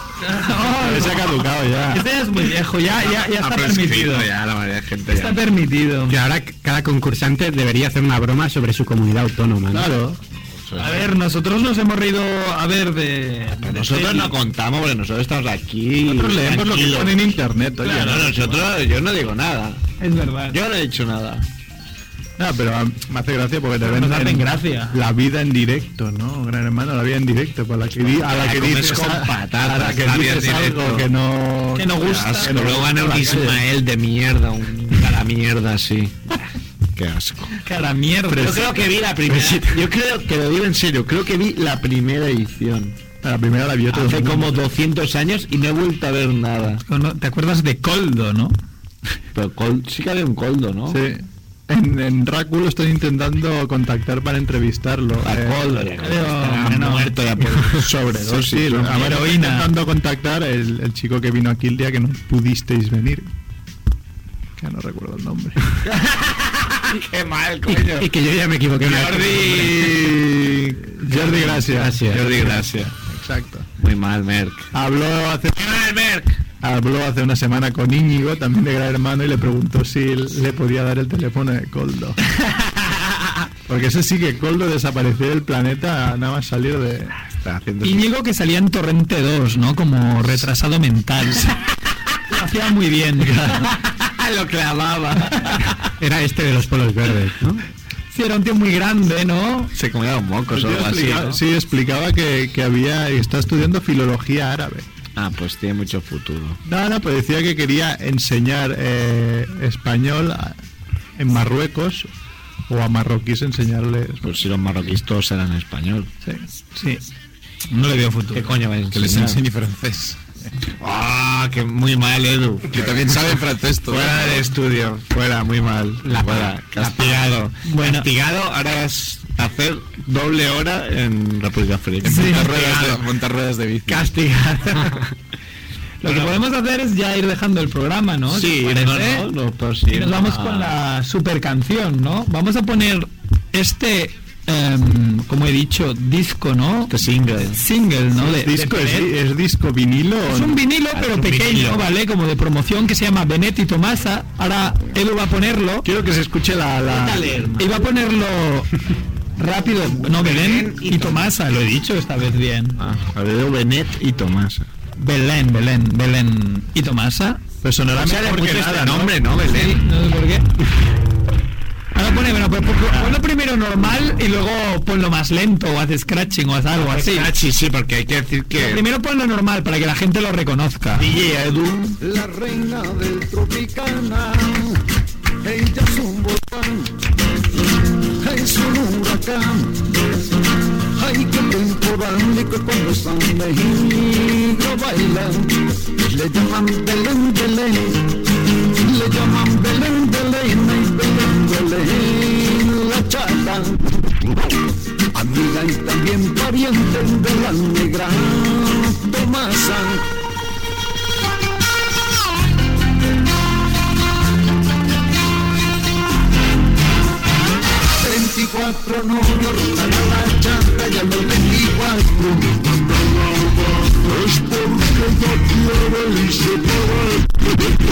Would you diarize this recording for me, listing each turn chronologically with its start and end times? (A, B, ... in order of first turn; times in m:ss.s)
0:00.2-0:04.3 A
0:00.7-0:02.1 B
0:02.9-0:05.4 C
0:05.1-0:06.2 A
0:06.1-0:09.9 D
0:09.7-0:10.2 B
0:10.5-0:11.1 C
0:10.8-0:14.3 A
0:13.6-0:17.2 C
0:16.0-0:18.3 B
0:17.8-0:18.5 A
0:17.8-0:19.8 C
0:20.0-0:20.6 A
0:20.5-0:21.5 C
0:22.4-0:33.6 B
0:23.8-0:25.0 A
0:28.2-0:31.1 C
0:31.7-0:32.6 A
0:32.0-0:37.6 C
0:37.6-0:38.8 A
0:38.3-0:43.0 C
0:43.2-0:44.6 B
0:43.9-0:46.8 C
0:46.9-0:48.6 A
0:49.3-0:51.0 C
0:50.9-0:55.8 B
0:55.2-0:59.2 C
0:56.0-0:57.6 A
0:57.9-1:03.3 B
0:58.8-0:59.7 A
1:04.6-1:05.7 B
1:05.8-1:08.1 C
1:07.7-1:09.8 D
1:08.8-1:10.8 C
1:10.8-1:13.7 B
1:11.2-1:12.2 D
1:12.0-1:12.9 C
1:13.8-1:14.7 C
1:14.7-1:15.8 B
1:15.6-1:16.4 C
1:16.6-1:22.2 B
1:23.7-1:27.2 B
1:27.4-1:28.1 C
1:27.8-1:31.7 A
1:32.3-1:33.8 A
1:33.6-1:35.8 C
1:36.0-1:37.6 D
1:38.1-1:39.7 A
1:39.7-1:41.4 C
1:40.5-1:44.9 B
1:45.2-1:46.6 C
1:46.6-1:50.6 B
1:51.2-1:52.1 B
1:52.7-1:54.4 B
1:54.2-1:56.1 C
1:56.2-1:57.0 A
1:57.7-1:58.5 A
1:58.3-1:59.4 C
1:58.9-2:00.2 E
2:00.8-2:13.1 C
2:02.7-2:04.5 E
2:06.0-2:07.3 D
2:07.6-2:08.1 A
2:12.0-2:14.1 E
2:12.0-2:12.5 A
2:13.9-2:15.1 C
2:16.0-2:19.3 A
2:16.0-2:16.3 C
2:18.3-2:20.7 C
2:19.9-2:29.1 A
2:26.9-2:27.6 C
2:28.2-2:30.6 B
2:30.3-2:35.9 A
2:30.9-2:31.9 C
2:35.8-2:37.4 B
2:36.9-2:37.8 C
2:37.6-2:38.8 A
2:39.4-2:42.8 A
2:40.0-2:41.3 C
2:42.8-2:44.7 C
2:45.0-2:47.4 A
2:47.6-2:49.2 B
2:48.0-2:49.8 C
2:49.4-2:50.5 A
2:51.9-2:57.3 A
2:52.9-2:53.2 B
2:56.7-2:58.8 C
2:58.5-3:01.1 A
3:01.0-3:02.0 C
3:02.0-3:04.8 F
3:05.4-3:06.9 F
3:08.2-3:09.7 F
3:11.0-3:18.1 F
3:18.8-3:24.0 F
3:25.1-3:30.0 F
3:38.0-3:47.4 F